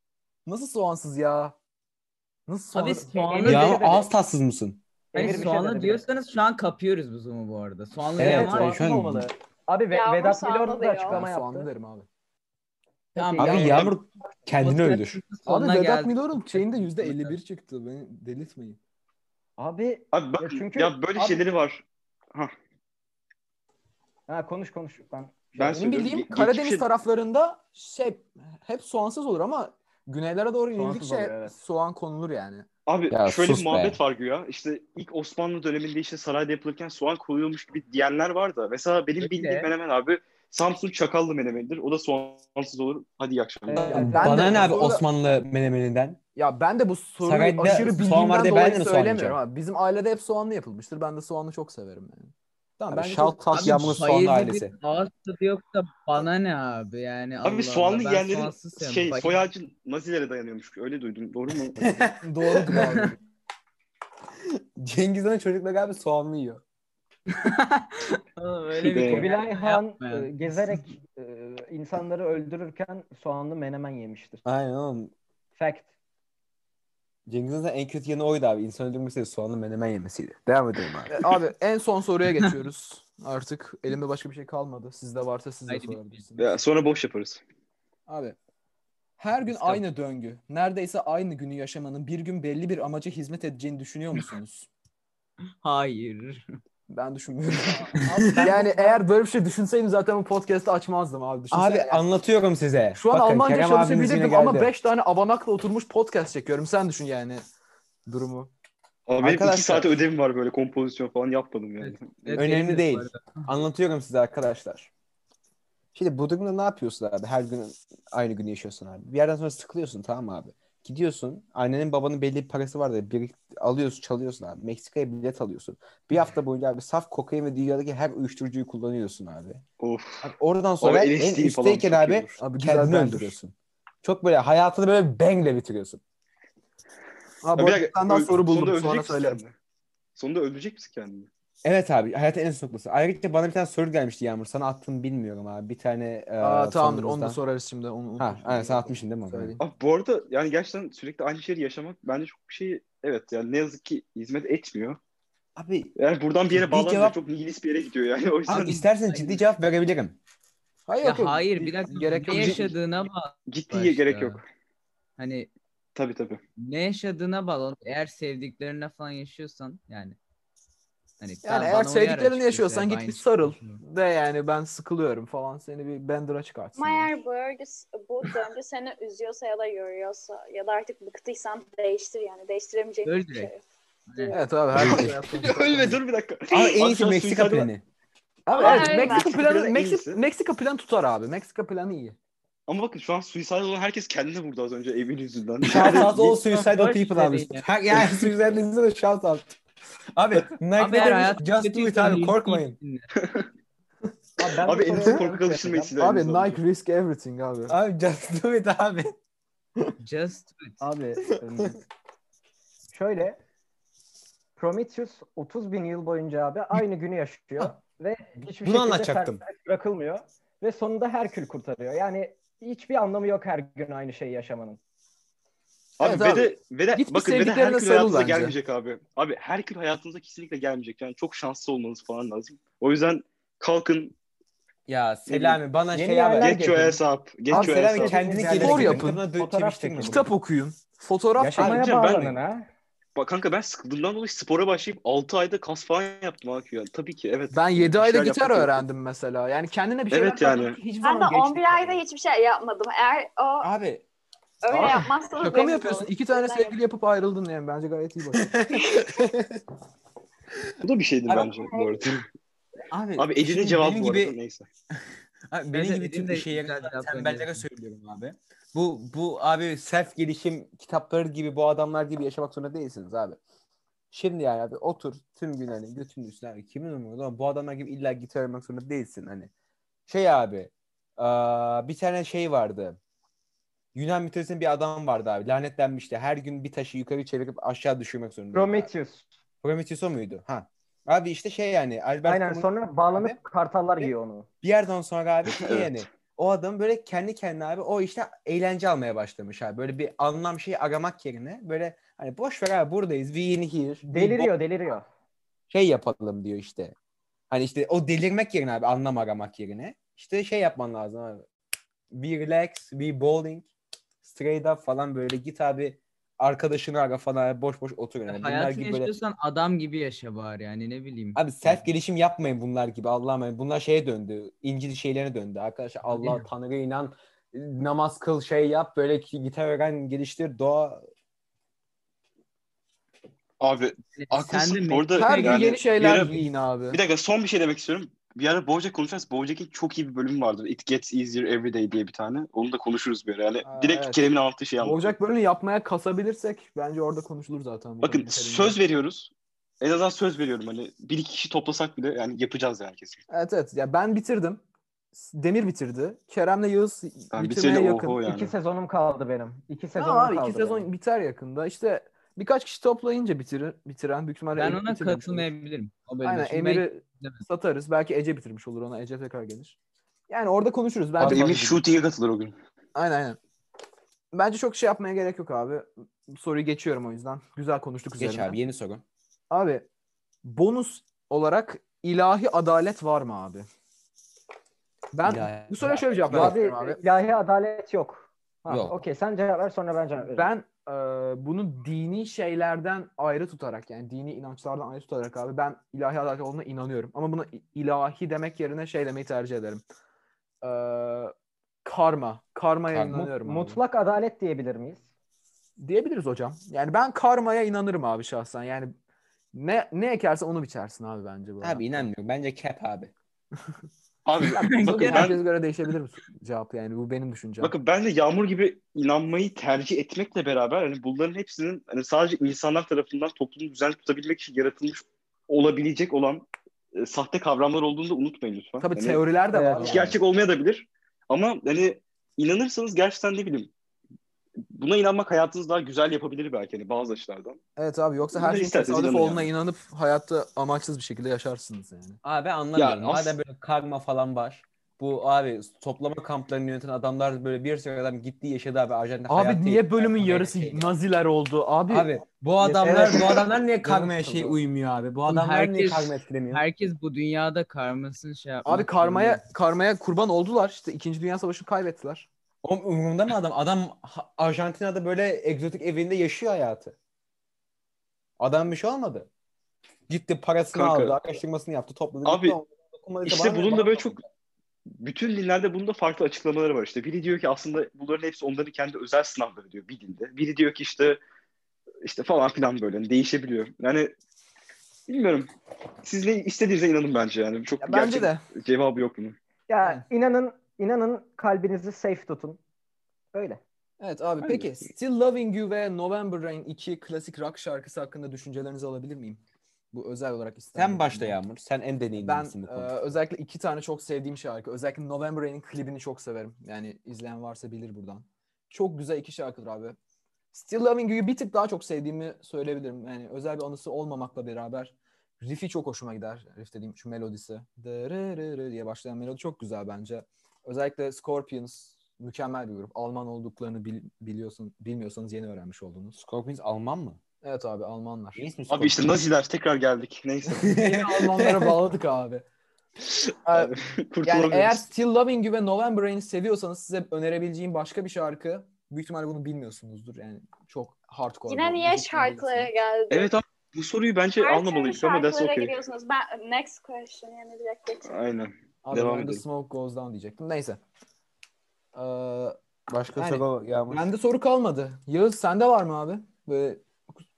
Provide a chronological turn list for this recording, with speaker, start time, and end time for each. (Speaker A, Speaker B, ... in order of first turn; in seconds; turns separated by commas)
Speaker A: 0.5-1.5, Speaker A: 2.5-3.1, Speaker B: 2.7-3.9, Speaker C: 3.1-4.1, Speaker D: 3.4-4.8, Speaker C: 5.1-6.0, Speaker B: 5.1-8.8, Speaker D: 8.2-9.3, Speaker C: 8.2-11.7, Speaker E: 9.9-11.2, Speaker A: 11.1-12.1, Speaker C: 13.2-13.8, Speaker B: 13.2-13.9, Speaker D: 13.4-15.2, Speaker B: 14.5-17.4, Speaker A: 15.4-18.8, Speaker C: 19.6-21.4, Speaker F: 20.1-22.5, Speaker C: 24.3-25.8, Speaker F: 25.6-26.9, Speaker A: 25.6-32.6, Speaker C: 30.7-31.5, Speaker F: 32.9-44.1, Speaker D: 33.1-34.0, Speaker B: 39.2-39.7, Speaker C: 43.7-44.6, Speaker A: 43.9-45.0, Speaker D: 43.9-46.2, Speaker A: 46.3-53.5, Speaker D: 47.2-49.4, Speaker D: 52.9-54.7, Speaker B: 53.5-59.4, Speaker F: 57.4-61.9, Speaker D: 61.8-62.2, Speaker A: 62.2-63.2, Speaker D: 64.5-66.6, Speaker B: 67.3-70.9, Speaker F: 68.8-69.3, Speaker C: 69.0-74.4, Speaker D: 74.4-75.1, Speaker C: 75.5-75.9, Speaker D: 77.3-81.3, Speaker A: 81.1-86.5, Speaker B: 85.7-86.2, Speaker F: 86.4-87.4, Speaker A: 88.1-88.3, Speaker A: 89.2-94.7, Speaker B: 89.5-89.8, Speaker B: 95.6-96.4, Speaker A: 96.9-102.0, Speaker C: 97.9-99.0, Speaker D: 98.1-98.5, Speaker D: 101.5-104.7, Speaker A: 102.9-107.4, Speaker A: 108.0-108.5, Speaker F: 109.1-112.3, Speaker D: 109.2-109.9, Speaker B: 111.8-113.5, Speaker D: 112.3-114.9, Speaker D: 115.9-129.6, Speaker F: 129.8-132.4, Speaker D: 130.2-136.0, Speaker A: 132.4-133.4, Speaker A: 137.4-139.4, Speaker F: 137.6-139.5, Speaker F: 140.1-141.3, Speaker D: 141.6-147.4, Speaker A: 146.4-149.6, Speaker D: 148.2-149.6, Speaker F: 149.6-155.0, Speaker D: 155.6-155.9, Speaker F: 155.9-158.8, Speaker D: 156.5-157.2, Speaker D: 158.5-160.2, Speaker B: 158.7-159.4, Speaker A: 160.9-162.7, Speaker B: 161.0-164.4, Speaker F: 162.3-162.6, Speaker F: 163.5-164.4, Speaker B: 165.2-165.5, Speaker F: 165.9-166.4, Speaker B: 166.6-170.2, Speaker B: 171.2-173.8, Speaker A: 171.4-177.1, Speaker E: 176.8-183.6, Speaker B: 183.0-183.5, Speaker B: 184.1-184.4, Speaker E: 184.1-184.4, Speaker A: 184.3-186.0, Speaker F: 184.7-187.7, Speaker D: 186.5-187.8, Speaker A: 188.4-192.2, Speaker E: 188.5-189.4, Speaker F: 188.6-190.2, Speaker F: 192.7-196.2, Speaker D: 195.6-199.6, Speaker B: 195.8-197.7, Speaker D: 200.1-202.8, Speaker B: 200.8-203.1, Speaker F: 203.1-203.5, Speaker C: 204.4-205.9, Speaker F: 204.5-206.6, Speaker A: 206.0-207.7, Speaker D: 207.7-209.1, Speaker B: 210.0-210.8, Speaker C: 210.8-211.8, Speaker C: 212.9-213.4, Speaker C: 214.6-224.8, Speaker D: 218.4-219.4, Speaker F: 226.0-234.1, Speaker A: 226.0-228.6, Speaker D: 234.9-236.9, Speaker F: 235.3-235.5, Speaker C: 235.9-240.3, Speaker F: 236.4-238.2, Speaker D: 237.5-240.3, Speaker A: 238.5-239.2, Speaker A: 240.0-241.8, Speaker D: 241.4-241.9, Speaker C: 241.6-242.7, Speaker F: 241.7-242.4, Speaker F: 243.1-248.8, Speaker A: 247.5-252.0, Speaker F: 250.1-250.8, Speaker E: 250.9-253.7, Speaker D: 253.6-254.0, Speaker E: 254.6-256.8, Speaker D: 254.7-255.1, Speaker A: 255.4-258.6, Speaker D: 258.4-259.6, Speaker F: 260.8-262.3, Speaker E: 261.3-262.0, Speaker D: 262.9-264.4, Speaker F: 263.2-264.7, Speaker D: 265.0-273.4, Speaker B: 265.7-267.6, Speaker D: 274.1-279.5, Speaker D: 280.1-283.0, Speaker D: 283.9-288.9, Speaker C: 288.5-289.3, Speaker D: 289.6-293.4, Speaker C: 292.2-294.5, Speaker D: 294.6-304.5, Speaker F: 295.5-296.0, Speaker C: 304.1-305.1, Speaker D: 305.7-306.9, Speaker D: 307.5-311.4, Speaker D: 312.1-313.7, Speaker D: 314.2-319.1, Speaker B: 318.3-321.8, Speaker D: 321.3-331.1, Speaker B: 326.1-326.5, Speaker F: 333.6-345.1, Speaker B: 334.2-335.8, Speaker A: 335.1-337.0, Speaker A: 343.6-344.2, Speaker A: 344.8-348.8, Speaker F: 348.0-353.2, Speaker A: 353.3-358.2, Speaker F: 357.3-358.5, Speaker C: 358.2-360.9, Speaker A: 359.9-365.5, Speaker B: 364.6-367.4, Speaker A: 366.2-369.8, Speaker A: 370.3-371.8, Speaker F: 371.2-372.5, Speaker D: 371.2-371.4, Speaker A: 372.9-373.4, Speaker A: 374.3-378.6, Speaker D: 378.2-379.0, Speaker A: 379.5-379.9, Speaker A: 380.4-383.7, Speaker A: 385.1-387.0, Speaker D: 385.2-386.6, Speaker C: 386.3-390.5, Speaker D: 388.7-389.0, Speaker A: 390.3-399.8, Speaker A: 400.6-401.3, Speaker A: 401.8-403.8, Speaker D: 402.9-403.2, Speaker C: 403.1-405.0, Speaker A: 405.8-408.9, Speaker A: 409.5-412.1, Speaker D: 411.6-413.1, Speaker F: 414.2-415.4, Speaker A: 414.5-417.7, Speaker B: 414.6-415.3, Speaker F: 417.6-433.7, Speaker A: 428.8-430.2, Speaker C: 429.5-430.1, Speaker F: 434.7-437.6, Speaker A: 437.8-442.2, Speaker F: 438.3-439.5, Speaker D: 442.2-450.9, Speaker F: 442.8-443.4, Speaker A: 449.3-454.6, Speaker D: 451.9-456.6, Speaker B: 455.3-459.4, Speaker A: 458.6-462.3, Speaker D: 462.6-466.9, Speaker D: 468.4-469.3, Speaker D: 470.1-474.2, Speaker F: 470.7-471.2, Speaker F: 472.2-472.6, Speaker F: 473.2-474.2, Speaker F: 475.0-481.2, Speaker F: 482.0-484.1, Speaker F: 485.1-485.5, Speaker F: 486.0-489.4, Speaker A: 487.8-488.4, Speaker C: 489.7-492.6, Speaker C: 493.3-493.6, Speaker A: 494.0-499.4, Speaker D: 494.4-494.7, Speaker A: 499.9-501.4, Speaker D: 500.7-503.0, Speaker A: 502.2-510.0, Speaker A: 510.5-526.2, Speaker D: 526.1-527.2, Speaker A: 527.4-528.4, Speaker D: 528.3-529.2, Speaker F: 528.7-530.7, Speaker A: 530.5-532.4, Speaker D: 530.7-531.8, Speaker F: 533.0-534.8, Speaker A: 533.5-542.7, Speaker E: 541.5-543.3, Speaker F: 543.1-545.7, Speaker E: 544.4-548.1, Speaker F: 548.1-549.4, Speaker A: 548.8-550.8, Speaker A: 551.9-552.6, Speaker D: 552.9-554.1, Speaker A: 553.1-556.9